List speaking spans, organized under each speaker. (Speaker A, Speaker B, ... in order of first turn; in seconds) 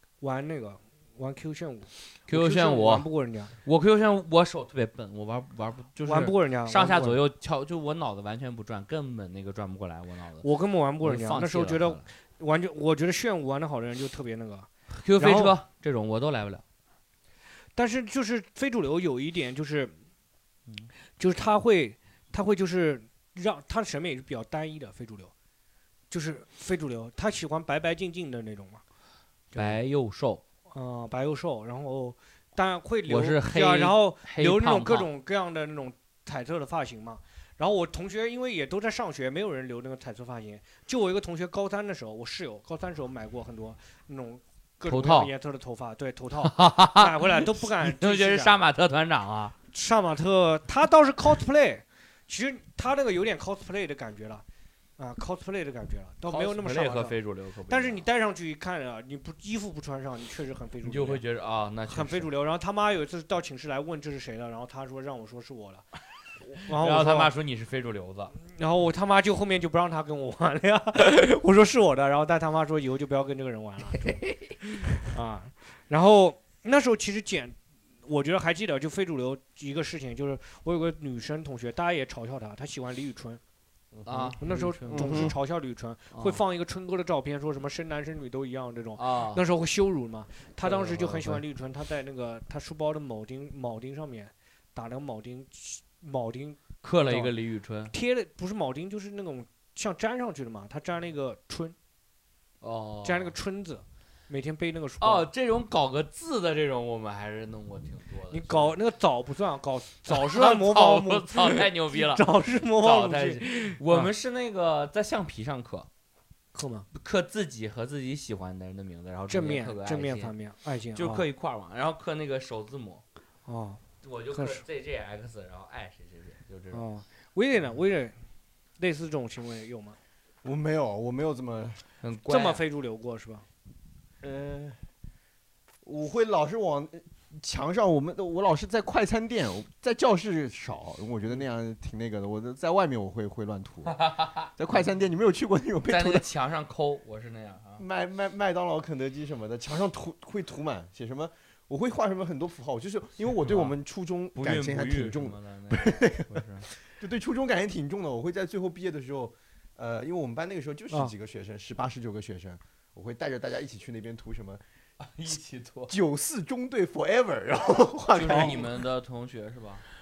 Speaker A: 0.2-3.5, 6.0-7.2, 10.4-15.6, 17.8-19.9, 21.2-25.3, 26.1-28.8, 29.5-29.8, 30.7-48.5, 49.7-54.4, 55.0-57.1, 57.7-61.2, 61.9-65.8, 66.5-67.3, 68.4-74.2, 74.9-83.4, 84.2-97.3, 97.9-101.7, 103.0-105.3, 108.3-114.1, 116.5-116.9, 119.3-121.2, 123.5-124.6, 126.7-128.1, 128.8-130.0, 132.3-133.4, 168.1-168.6
Speaker B: 2.3-3.1, 3.6-10.4, 11.0-12.0, 14.9-16.6, 29.5-30.4, 33.1-35.1, 44.8-45.3, 46.4-49.5, 56.2-58.0, 60.8-62.3, 66.7-68.3, 73.9-74.5, 84.0-85.3, 86.1-86.4, 89.0-89.4, 90.6-91.4, 96.8-97.9, 102.6-103.3, 105.0-108.8, 110.0-115.9, 116.9-120.3, 121.0-123.0, 124.0-126.8, 132.0-132.6, 143.9-144.5, 145.8-147.8, 153.4-153.8, 154.3-156.7, 165.0-165.9, 168.2-169.8
Speaker C: 84.9-85.3, 130.4-131.8, 134.2-134.8, 135.8-143.9, 144.6-146.3, 147.8-164.6, 165.9-168.8